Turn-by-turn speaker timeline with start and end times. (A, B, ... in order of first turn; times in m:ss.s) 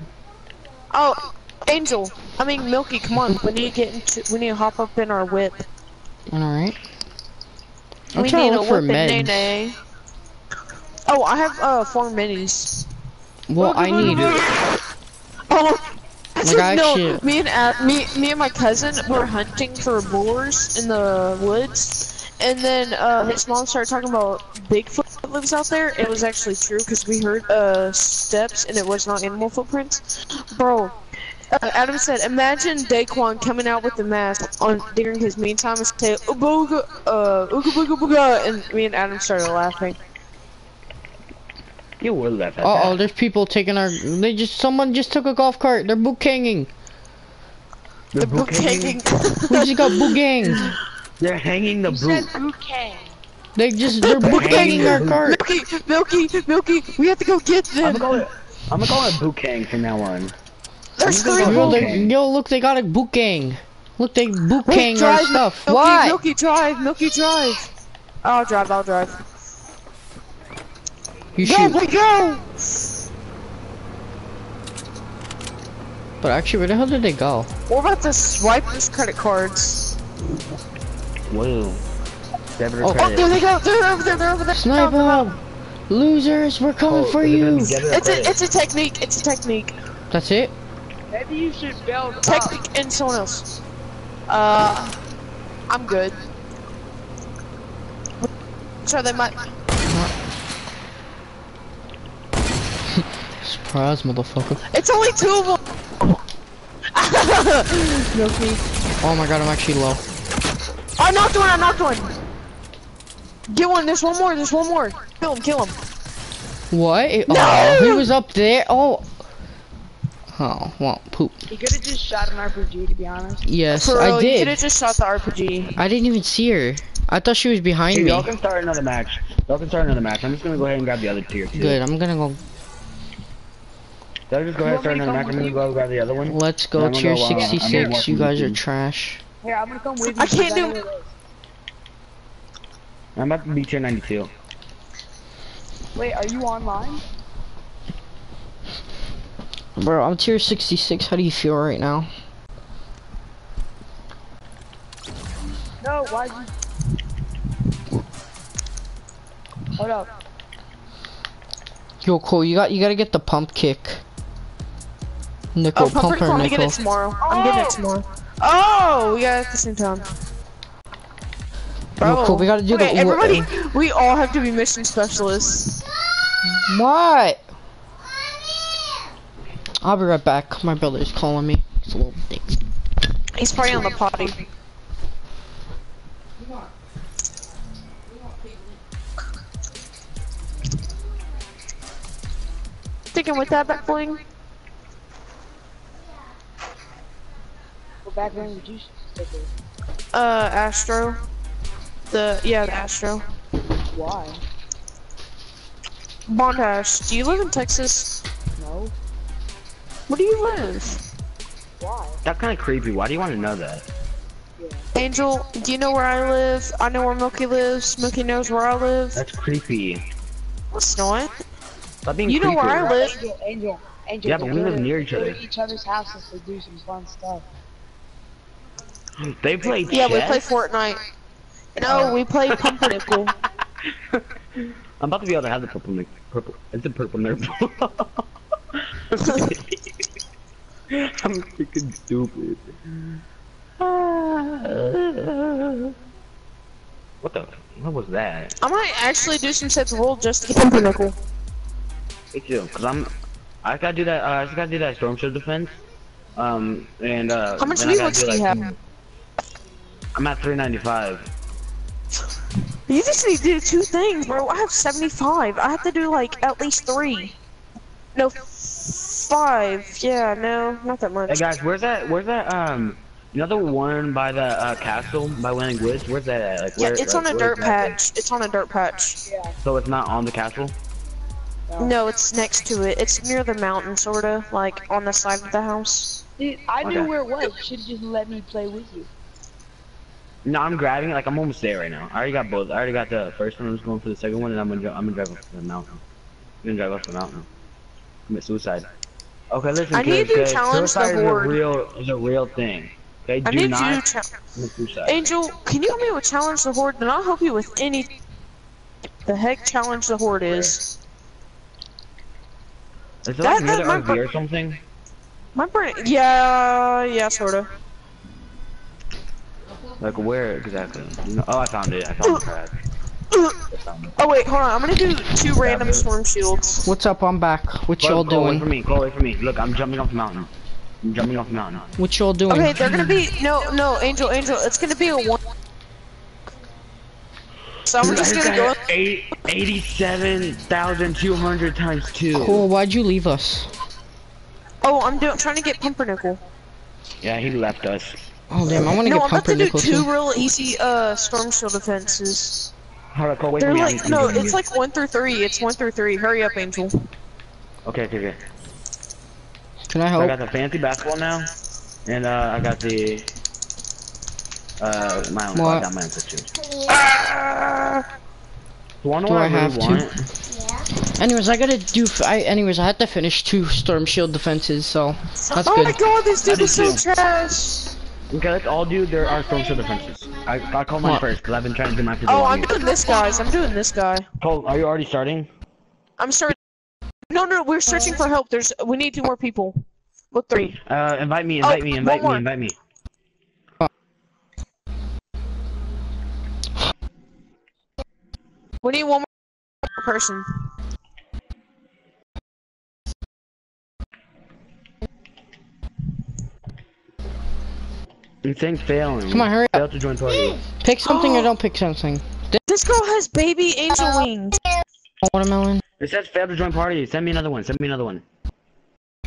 0:00.9-0:05.6 A
0:06.3-0:06.8 B
0:08.1-0:09.6 B
0:08.2-0:09.8 A
0:11.1-0:12.8 A
0:13.5-0:14.4 B
0:13.6-0:14.7 A
0:15.5-0:31.0 A
0:16.4-0:17.2 B
0:31.5-0:40.0 A
0:42.0-0:43.0 C
0:42.6-0:46.7 B
0:48.1-0:49.0 C
0:48.2-0:50.8 A
0:49.5-0:50.7 B
0:51.2-0:52.3 C
0:51.9-0:53.2 D
0:53.6-0:55.4 B
0:54.0-0:58.3 A
0:54.2-0:55.2 C
0:57.8-1:00.3 C
1:01.0-1:02.0 A
1:01.0-1:06.2 B
1:01.3-1:02.1 C
1:04.6-1:07.7 A
1:08.2-1:09.2 A
1:11.4-1:11.8 B
1:11.4-1:12.6 A
1:16.2-1:17.5 B
1:17.7-1:20.0 A
1:21.3-1:21.8 C
1:22.6-1:23.4 C
1:22.9-1:25.3 A
1:24.5-1:27.8 B
1:26.8-1:28.4 C
1:27.9-1:29.8 A
1:30.1-1:30.5 B
1:31.1-1:32.6 D
1:32.2-1:33.5 A
1:34.3-1:35.0 A
1:35.7-1:36.2 A
1:38.8-1:39.4 A
1:39.9-1:40.1 B
1:42.9-1:44.6 B
1:44.7-1:45.6 A
1:46.9-1:48.6 A
1:49.0-1:50.0 B
1:51.0-1:52.1 A
1:53.5-1:55.8 A
1:56.7-1:59.1 B
1:57.3-1:58.1 A
2:00.3-2:01.5 B
2:01.5-2:03.4 D
2:03.4-2:04.6 B
2:03.7-2:05.7 A
2:05.8-2:08.3 B
2:07.9-2:11.8 C
2:11.6-2:12.4 B
2:14.3-2:18.6 C
2:14.6-2:15.7 D
2:16.3-2:19.2 B
2:17.3-2:18.0 D
2:19.4-2:21.1 D
2:20.0-2:20.8 A
2:23.2-2:24.3 C
2:26.0-2:27.0 D
2:29.8-2:32.1 B
2:35.8-2:36.5 D
2:39.8-2:40.1 D
2:42.0-2:44.0 B
2:45.6-2:46.8 B
2:45.8-2:50.0 A
2:47.2-2:47.8 D
2:52.0-2:53.5 B
2:52.0-2:55.8 A
2:56.5-2:57.4 B
2:59.8-3:02.6 B
3:03.4-3:04.4 A
3:13.1-3:14.2 A
3:18.0-3:19.5 D
3:20.1-3:21.2 A
3:22.1-3:23.2 A
3:23.9-3:24.4 D
3:26.3-3:28.2 A
3:28.6-3:28.9 D
3:30.1-3:31.0 A
3:31.8-3:32.2 D
3:32.2-3:33.9 C
3:34.6-3:34.8 D
3:35.0-3:39.2 A
3:39.2-3:40.0 C
3:40.7-3:41.3 A
3:42.1-3:43.0 C
3:42.3-3:43.2 A
3:42.8-3:47.4 D
3:44.2-3:45.4 C
3:49.2-3:50.4 C
3:49.9-3:51.0 A
3:51.8-3:53.4 A
3:51.8-3:52.8 C
3:55.0-3:58.2 C
3:59.1-3:59.8 C
4:00.9-4:03.2 C
4:03.8-4:06.0 C
4:07.2-4:08.6 C
4:08.6-4:11.2 A
4:12.3-4:13.1 C
4:13.6-4:15.8 C
4:16.4-4:18.7 C
4:17.6-4:18.7 A
4:20.2-4:21.3 C
4:22.9-4:27.3 A
4:28.2-4:31.5 A
4:31.3-4:38.0 C
4:36.8-4:39.2 A
4:39.3-4:39.6 D
4:39.6-4:40.8 C
4:41.7-4:42.0 D
4:41.8-4:46.2 A
4:46.4-4:49.1 D
4:46.8-4:47.1 C
4:50.4-4:56.0 C
4:56.6-4:57.5 C
4:58.3-4:58.9 C
4:59.5-5:04.0 C
4:59.9-5:01.6 A
5:03.4-5:04.3 A
5:04.6-5:05.3 C
5:05.1-5:08.1 A
5:09.3-5:10.8 A
5:10.5-5:10.7 C
5:13.2-5:14.8 C
5:13.4-5:14.2 A
5:15.6-5:17.7 A
5:20.0-5:22.7 C
5:23.7-5:24.2 C
5:24.2-5:26.8 A
5:25.6-5:26.1 C
5:26.8-5:28.7 B
5:28.0-5:30.5 C
5:31.0-5:31.9 C
5:32.0-5:33.2 B
5:32.5-5:35.4 A
5:37.9-5:38.8 A
5:38.0-5:42.7 C
5:42.3-5:43.7 B
5:44.8-5:46.4 A
5:47.2-5:48.3 C
5:48.5-5:50.1 B
5:49.0-5:52.7 A
5:53.1-5:54.6 C
5:53.6-5:57.0 A
5:57.9-5:58.4 C
5:59.9-6:00.4 B
6:00.2-6:01.5 C
6:02.1-6:03.3 C
6:04.8-6:06.5 C
6:05.5-6:05.9 B
6:06.9-6:08.0 A
6:09.0-6:10.2 C
6:09.3-6:10.1 B
6:11.1-6:16.0 B
6:15.5-6:18.0 A
6:16.4-6:17.0 C
6:18.3-6:22.8 C
6:22.3-6:24.3 A
6:24.4-6:25.5 C
6:26.2-6:26.6 A
6:27.3-6:29.8 A
6:30.3-6:30.8 A
6:30.8-6:32.8 C
6:31.6-6:32.4 A
6:38.8-6:39.3 A
6:39.8-6:40.6 A
6:48.4-6:50.6 C
6:49.3-6:49.8 B
6:50.6-6:52.6 B
6:51.1-6:51.5 A
6:52.7-6:54.6 A
6:55.2-6:55.8 B
6:56.0-6:58.2 C